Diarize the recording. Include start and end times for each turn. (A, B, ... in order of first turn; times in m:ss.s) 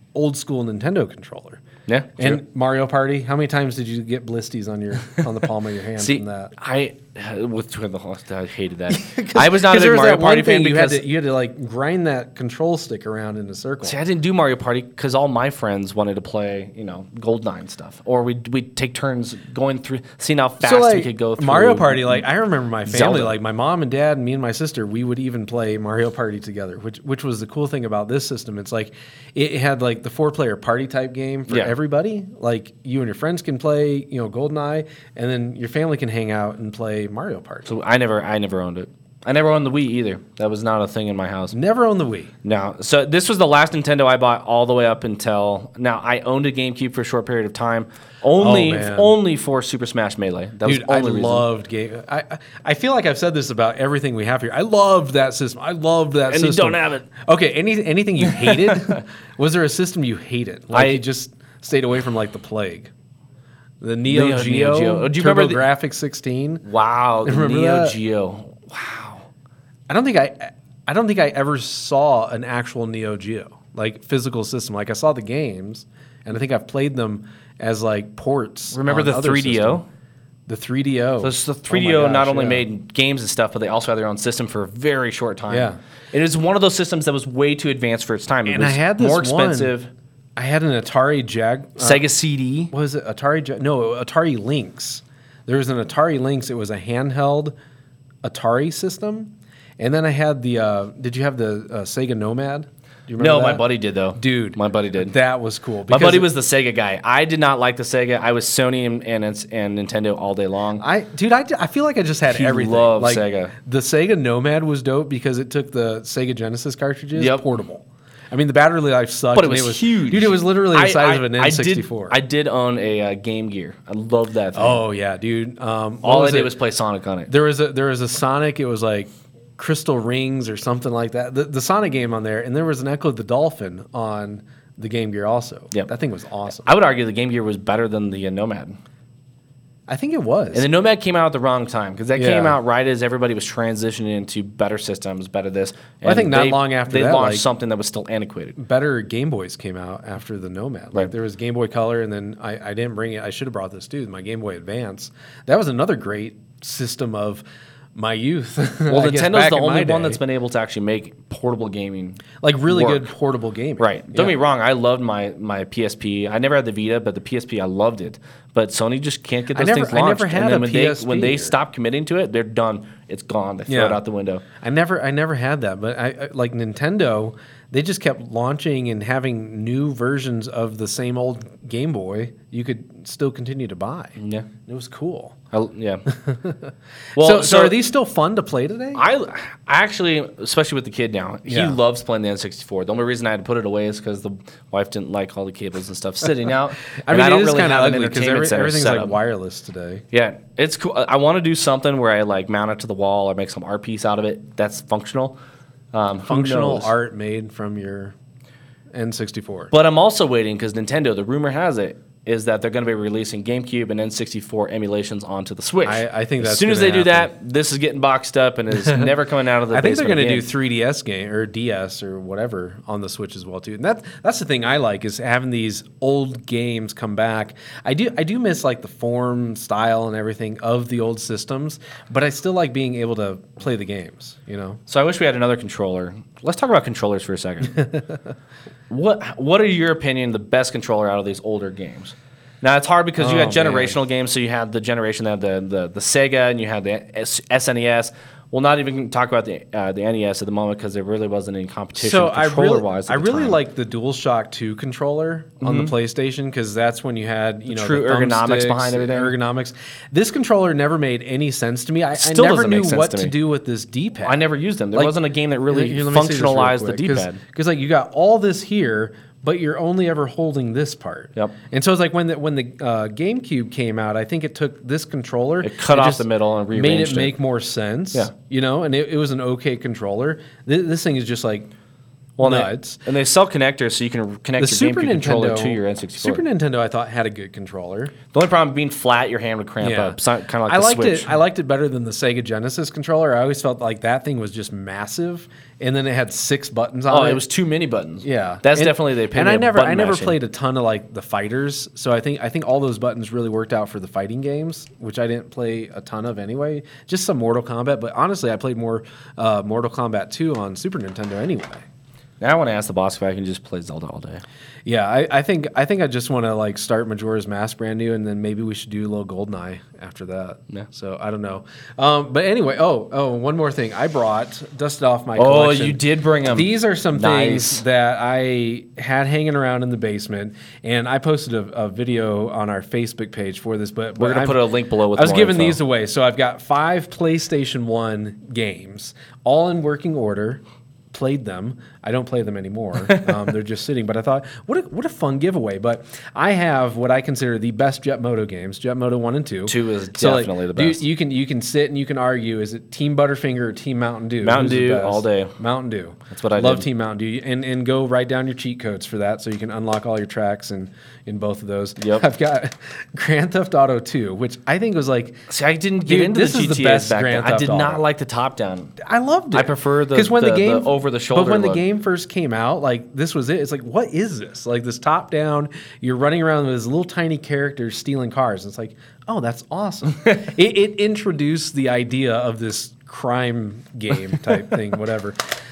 0:00.2-0:01.6 A
0:01.9-0:02.4 B
0:02.2-0:06.5 A
0:06.0-0:11.0 B
0:08.9-0:14.0 A
0:13.8-0:22.2 B
0:20.6-0:37.7 A
0:22.9-0:23.3 B
0:37.7-0:41.6 B
0:41.5-0:42.3 A
0:42.4-0:51.5 B
0:48.4-0:49.2 A
0:50.6-1:02.9 A
0:56.3-0:57.1 B
0:58.2-0:59.0 B
1:00.7-1:01.0 B
1:03.8-1:06.6 A
1:04.1-1:05.6 B
1:06.6-1:09.3 B
1:07.2-1:08.0 A
1:09.9-1:19.8 A
1:18.7-1:19.8 B
1:20.5-1:22.7 A
1:21.2-1:29.9 B
1:25.5-1:25.8 A
1:28.5-1:29.8 A
1:30.4-1:32.0 A
1:31.8-1:32.7 B
1:32.7-1:37.5 A
1:38.2-1:46.3 A
1:43.2-1:45.2 B
1:45.9-1:50.8 B
1:50.8-2:02.2 A
1:52.3-1:53.5 B
1:57.2-1:57.4 B
1:59.3-2:04.8 B
2:04.6-2:06.6 A
2:06.0-2:07.3 B
2:07.3-2:16.7 A
2:16.6-2:18.8 B
2:19.9-2:20.7 A
2:20.5-2:28.6 B
2:22.2-2:22.6 A
2:26.0-2:27.4 A
2:28.6-2:37.4 A
2:38.0-2:40.2 A
2:38.9-2:43.1 B
2:42.4-2:44.4 A
2:43.8-2:54.4 B
2:49.5-2:51.6 A
2:53.7-2:54.0 A
2:54.6-3:05.4 A
3:04.2-3:04.5 B
3:05.5-3:06.0 B
3:06.1-3:09.0 A
3:07.2-3:07.8 B
3:08.9-3:19.2 B
3:11.5-3:11.8 A
3:17.0-3:20.0 A
3:20.1-3:25.4 B
3:25.9-3:26.9 B
3:26.3-3:28.2 A
3:28.9-3:29.7 A
3:29.7-3:40.5 B
3:35.8-3:37.3 A
3:39.7-3:54.8 A
3:54.9-3:57.8 B
3:58.9-4:13.6 B
4:03.2-4:04.0 A
4:12.0-4:24.4 A
4:15.6-4:15.9 B
4:17.7-4:19.3 B
4:22.2-4:23.4 B
4:24.2-4:27.4 B
4:25.7-4:41.7 A
4:35.6-4:37.4 B
4:42.4-4:46.4 B
4:42.4-4:43.0 A
4:44.6-4:48.1 A
4:48.3-4:51.4 B
4:49.8-4:57.4 A
4:57.1-5:00.4 B
4:58.2-5:11.8 A
5:12.4-5:14.4 B
5:14.9-5:34.6 A
5:25.4-5:27.8 B
5:34.2-5:35.8 B
5:35.1-5:40.6 A
5:41.1-6:05.4 A
5:43.1-5:43.4 B
5:49.7-5:51.0 B
5:54.4-5:55.5 B
5:56.3-5:56.8 B
6:02.0-6:02.3 B
6:05.5-6:08.9 B
6:06.0-6:08.0 A
6:09.0-6:25.4 A
6:09.5-6:11.8 B